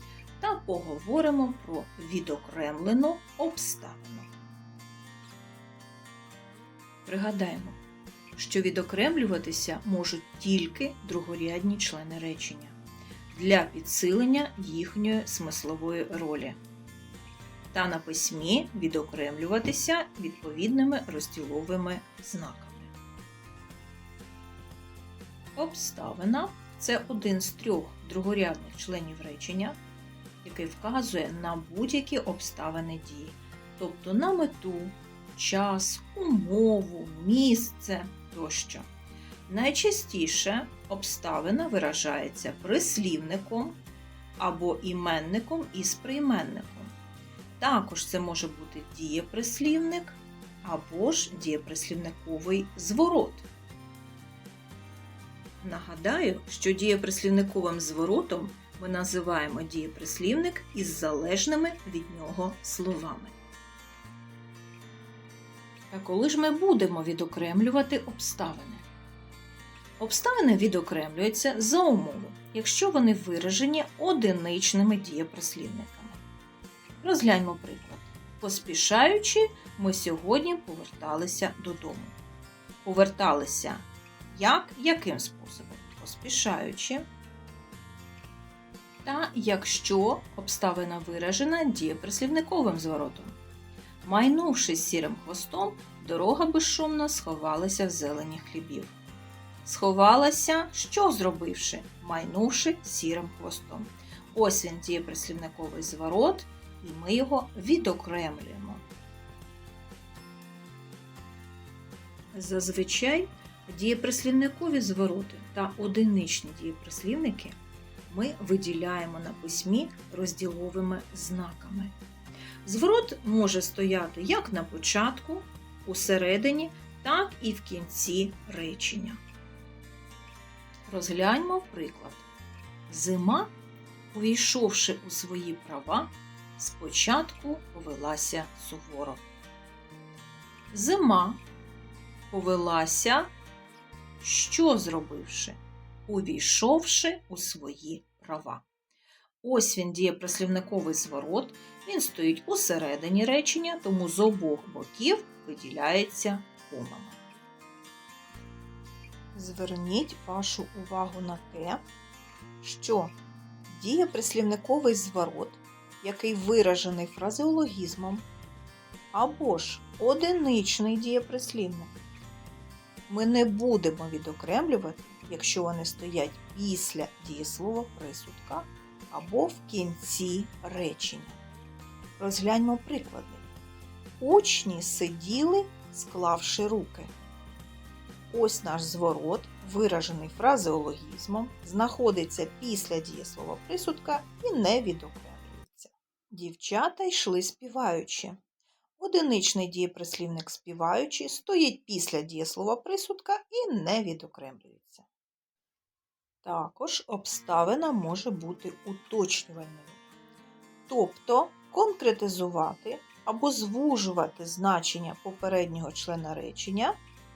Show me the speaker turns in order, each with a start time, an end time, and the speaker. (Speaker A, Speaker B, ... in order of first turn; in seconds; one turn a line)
Speaker A: 0.4-4.3
Speaker A: 7.1-7.8
Speaker A: 8.4-12.8
Speaker A: 13.3-16.6
Speaker A: 17.7-22.9
Speaker A: 25.6-29.8
Speaker A: 30.4-38.9
Speaker A: 39.5-43.8
Speaker A: 44.4-47.0
Speaker A: 47.6-53.5
Speaker A: 55.6-63.4
Speaker A: 65.9-68.8
Speaker A: 70.0-76.2
Speaker A: 77.0-82.2
Speaker A: 82.8-87.1
Speaker A: 89.0-93.4
Speaker A: 94.0-99.0
Speaker A: 99.7-108.8
Speaker A: 112.3-117.6
Speaker A: 118.1-122.0
Speaker A: 122.6-129.2
Speaker A: 130.9-132.3
Speaker A: 132.9-133.5
Speaker A: 134.1-139.2
Speaker A: 140.7-141.4
Speaker A: 142.3-143.3
Speaker A: 144.2-148.7
Speaker A: 149.4-157.2
Speaker A: 159.3-161.8
Speaker A: 162.6-163.1
Speaker A: 163.7-168.2
Speaker A: 169.1-171.9
Speaker A: 173.1-181.4
Speaker A: 182.2-183.4
Speaker A: 184.2-187.1
Speaker A: 188.3-198.4
Speaker A: 199.0-205.1
Speaker A: 206.4-210.0
Speaker A: 210.9-217.0